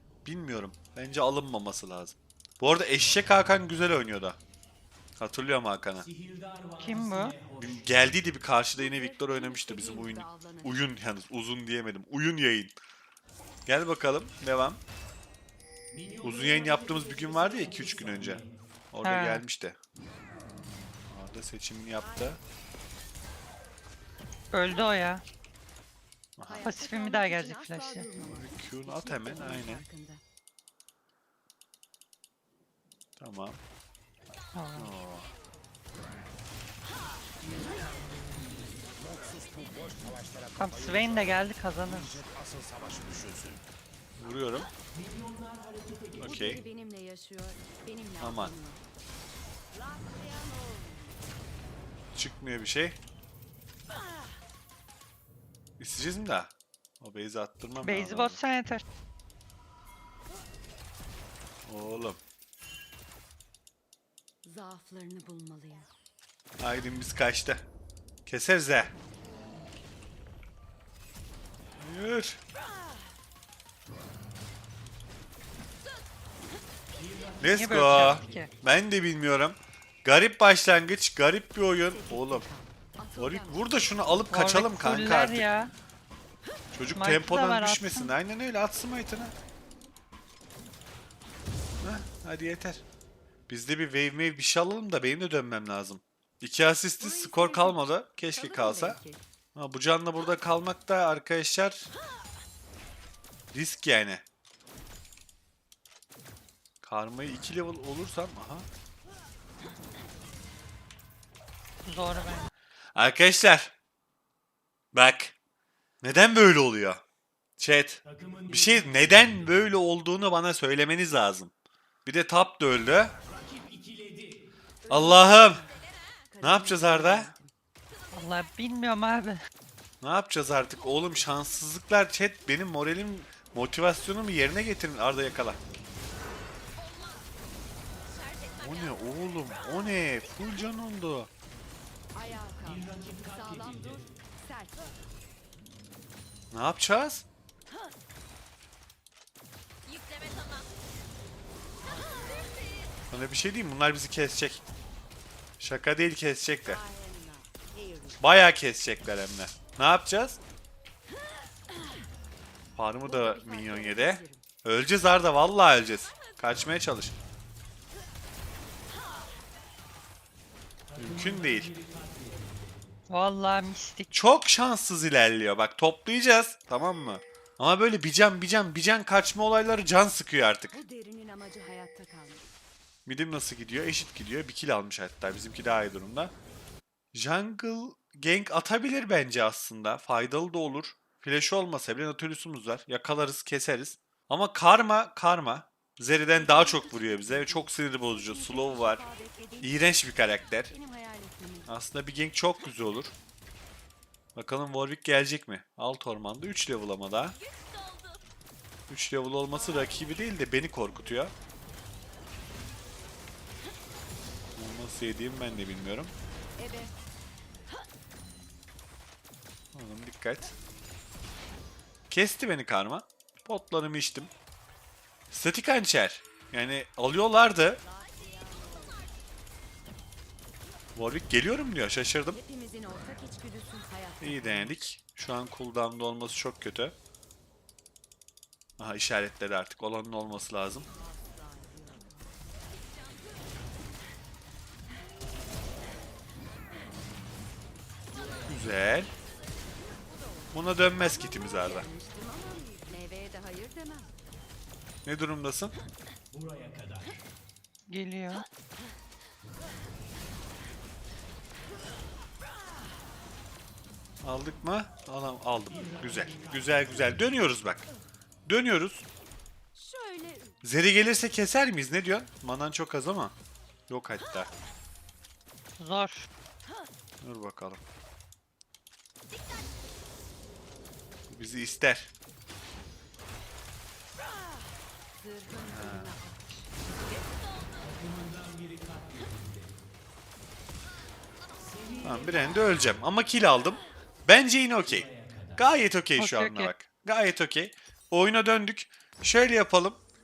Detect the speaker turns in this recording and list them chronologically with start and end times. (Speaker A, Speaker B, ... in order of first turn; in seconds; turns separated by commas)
Speaker A: 0.2-4.4, Speaker A: 5.2-6.1, Speaker B: 6.8-7.4, Speaker A: 7.6-12.7, Speaker C: 8.7-10.9, Speaker A: 13.7-14.8, Speaker A: 16.2-19.8, Speaker B: 19.0-19.4, Speaker A: 21.1-22.4, Speaker C: 22.0-22.4, Speaker B: 24.5-25.2, Speaker A: 26.4-26.7, Speaker C: 26.5-30.2, Speaker B: 26.6-28.1, Speaker A: 28.4-29.8, Speaker A: 33.2-33.6, Speaker B: 34.5-34.9, Speaker A: 34.8-35.3, Speaker B: 40.6-42.2, Speaker A: 44.2-44.7, Speaker A: 46.2-46.6, Speaker C: 46.2-48.8, Speaker A: 48.2-48.5, Speaker A: 52.1-53.0, Speaker A: 55.8-58.4, Speaker B: 57.8-58.8, Speaker A: 61.6-62.2, Speaker C: 64.4-65.9, Speaker A: 66.6-67.6, Speaker A: 68.2-68.9, Speaker A: 71.8-72.4, Speaker A: 77.4-82.5, Speaker B: 77.5-78.5, Speaker C: 81.8-84.3, Speaker A: 83.2-85.4, Speaker B: 84.3-85.7, Speaker A: 86.7-89.3, Speaker B: 87.0-88.1, Speaker A: 91.8-92.8, Speaker A: 93.5-99.0, Speaker C: 97.0-99.2, Speaker A: 99.5-101.9, Speaker A: 103.5-104.2, Speaker A: 106.8-108.7, Speaker B: 111.8-112.5, Speaker A: 112.9-113.7, Speaker A: 114.9-115.3, Speaker A: 116.0-117.0, Speaker A: 117.6-121.5, Speaker A: 122.0-123.1, Speaker C: 124.8-127.5, Speaker A: 124.9-125.6, Speaker A: 126.4-127.3, Speaker B: 128.1-129.4, Speaker A: 130.0-135.6, Speaker A: 138.5-141.3, Speaker C: 142.1-144.9, Speaker A: 146.5-147.2, Speaker C: 152.1-152.6, Speaker A: 153.1-154.6, Speaker A: 155.6-156.8, Speaker C: 156.5-158.2, Speaker A: 158.2-160.4, Speaker A: 162.8-167.1, Speaker C: 163.0-164.4, Speaker A: 170.9-171.7, Speaker B: 173.1-174.1, Speaker A: 174.1-180.8, Speaker C: 180.7-182.4, Speaker A: 183.1-186.3, Speaker A: 187.1-199.0, Speaker C: 196.3-200.0, Speaker A: 199.6-200.7, Speaker C: 200.6-201.7, Speaker A: 201.7-203.1, Speaker A: 204.3-207.3, Speaker A: 208.9-211.3, Speaker C: 209.5-211.3, Speaker A: 214.6-216.1, Speaker C: 216.6-217.0, Speaker A: 219.7-220.5, Speaker A: 222.1-224.3, Speaker A: 225.3-227.8, Speaker C: 227.8-229.1, Speaker A: 230.9-232.4, Speaker C: 232.3-234.8, Speaker A: 234.2-236.9, Speaker A: 238.8-240.9, Speaker C: 240.8-242.3, Speaker A: 248.5-249.1, Speaker C: 250.5-254.2, Speaker A: 250.5-251.9, Speaker A: 255.1-255.7, Speaker B: 257.9-258.4, Speaker A: 264.2-267.9, Speaker A: 268.4-269.0, Speaker C: 269.7-270.5, Speaker A: 270.6-273.3, Speaker A: 273.9-274.5, Speaker B: 275.8-276.3, Speaker A: 277.2-277.8, Speaker A: 281.3-282.1, Speaker C: 285.2-287.9, Speaker A: 285.7-286.1, Speaker A: 292.0-300.0, Speaker B: 296.2-296.7